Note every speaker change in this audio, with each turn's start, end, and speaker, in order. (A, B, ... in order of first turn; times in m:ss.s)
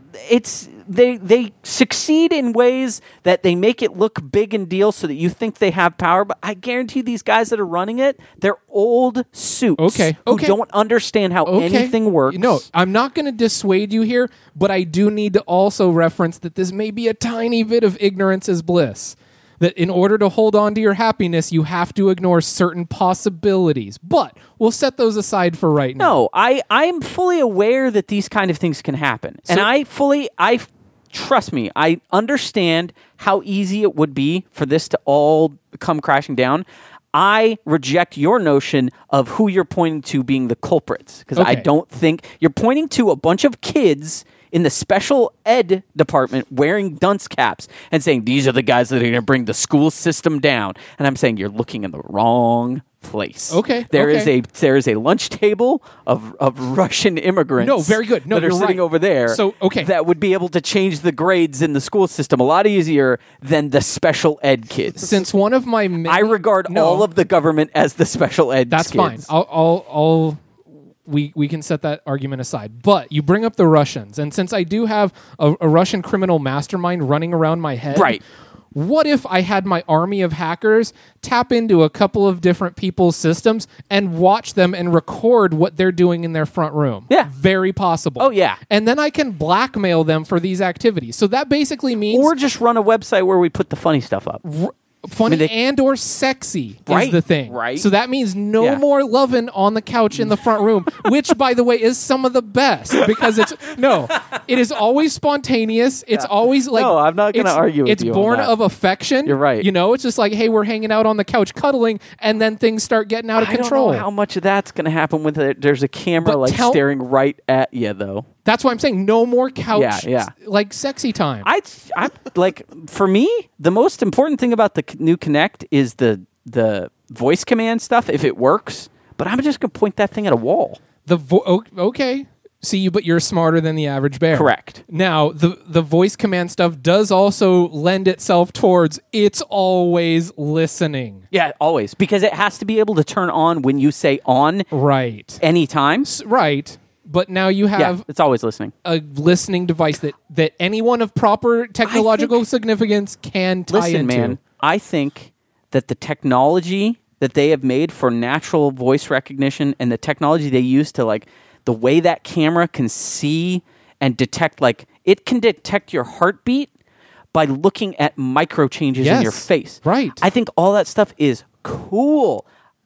0:00.2-0:12.6 A
0:09.8-0:10.6 B
0:11.5-0:26.2 B
0:26.0-1:05.1 A
0:41.4-0:41.7 B
0:53.5-0:54.3 B
0:57.6-0:59.9 B
1:05.0-1:07.1 B
1:06.1-1:09.3 A
1:08.7-1:10.4 B
1:11.1-1:18.2 B
1:17.9-1:18.2 A
1:18.7-1:32.3 B
1:28.2-1:28.6 A
1:32.1-1:34.4 A
1:34.4-1:54.1 B
1:36.9-1:37.9 A
1:46.1-1:48.5 A
1:49.3-1:49.7 A
1:53.4-1:58.3 A
1:56.2-1:56.8 B
1:58.5-2:01.5 B
1:59.7-2:00.3 A
2:01.4-2:10.8 A
2:11.0-2:21.2 B
2:14.3-2:14.8 A
2:21.3-2:24.7 A
2:24.7-2:25.4 B
2:25.4-2:26.1 A
2:26.0-2:28.0 B
2:27.8-2:28.7 A
2:28.8-2:34.4 B
2:31.9-2:32.4 A
2:33.7-2:46.7 A
2:47.3-2:52.4 A
2:49.0-2:50.2 B